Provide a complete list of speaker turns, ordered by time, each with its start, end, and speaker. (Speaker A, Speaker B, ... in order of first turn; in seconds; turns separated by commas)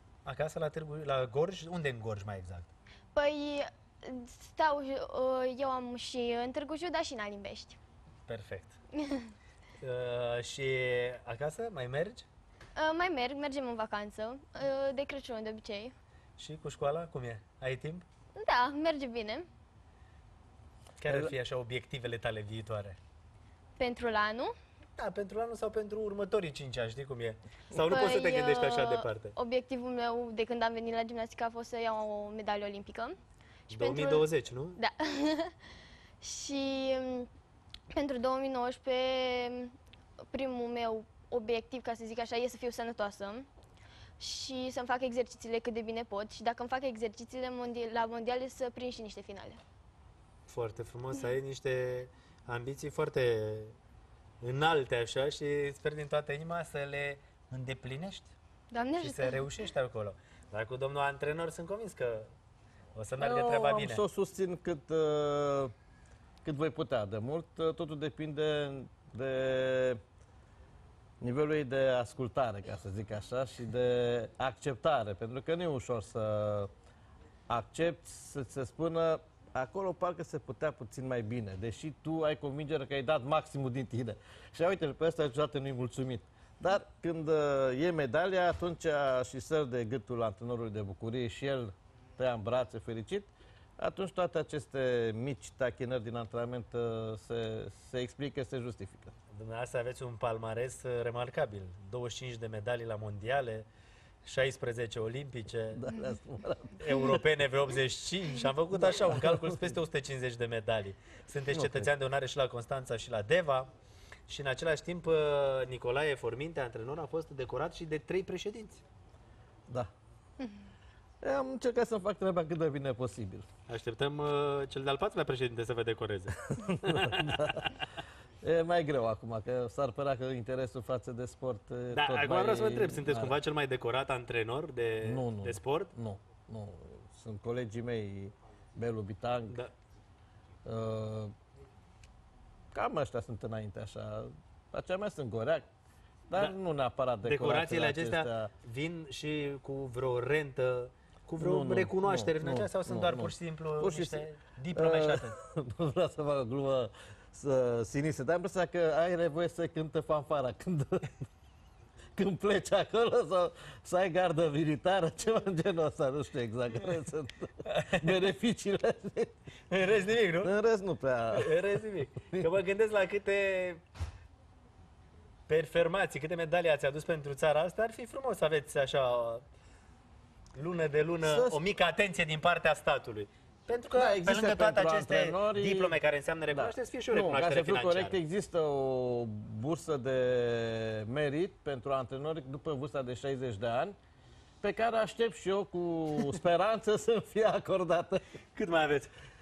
Speaker A: 0.2-2.7, Speaker B: 3.1-7.8, Speaker A: 8.3-8.7, Speaker B: 9.0-9.3, Speaker A: 9.8-12.3, Speaker B: 12.8-15.9, Speaker A: 16.4-18.0, Speaker B: 18.4-19.5, Speaker A: 21.0-23.0, Speaker B: 23.8-24.5, Speaker A: 25.0-29.3, Speaker B: 27.8-33.1, Speaker A: 33.7-34.8, Speaker B: 33.7-35.5, Speaker B: 36.2-37.3, Speaker B: 37.9-39.7, Speaker B: 40.3-43.5, Speaker B: 44.2-49.6, Speaker A: 50.5-53.8, Speaker A: 54.4-58.3, Speaker B: 58.7-59.4, Speaker A: 59.0-62.3, Speaker A: 62.9-64.0, Speaker C: 63.2-65.7, Speaker C: 66.4-70.0, Speaker C: 71.2-76.7, Speaker C: 77.5-99.1, Speaker A: 99.3-103.7, Speaker A: 104.2-105.8, Speaker C: 105.7-107.2, Speaker A: 106.8-113.7, Speaker C: 109.0-109.7, Speaker C: 111.5-111.9, Speaker A: 114.3-118.8, Speaker C: 121.2-123.5, Speaker A: 123.7-127.6, Speaker C: 126.5-127.7, Speaker C: 128.4-133.4, Speaker A: 131.9-135.9, Speaker C: 135.0-139.6, Speaker C: 140.6-141.3, Speaker C: 142.7-145.7, Speaker C: 146.3-148.5, Speaker A: 147.2-155.3, Speaker C: 151.4-161.2, Speaker C: 162.2-169.3, Speaker A: 167.7-168.2, Speaker A: 169.7-170.5, Speaker C: 170.4-172.5, Speaker A: 171.3-173.8, Speaker A: 175.5-179.4, Speaker A: 180.6-188.2, Speaker C: 181.2-181.6, Speaker C: 183.9-186.0, Speaker C: 186.5-193.9, Speaker C: 194.6-198.2, Speaker A: 198.5-199.1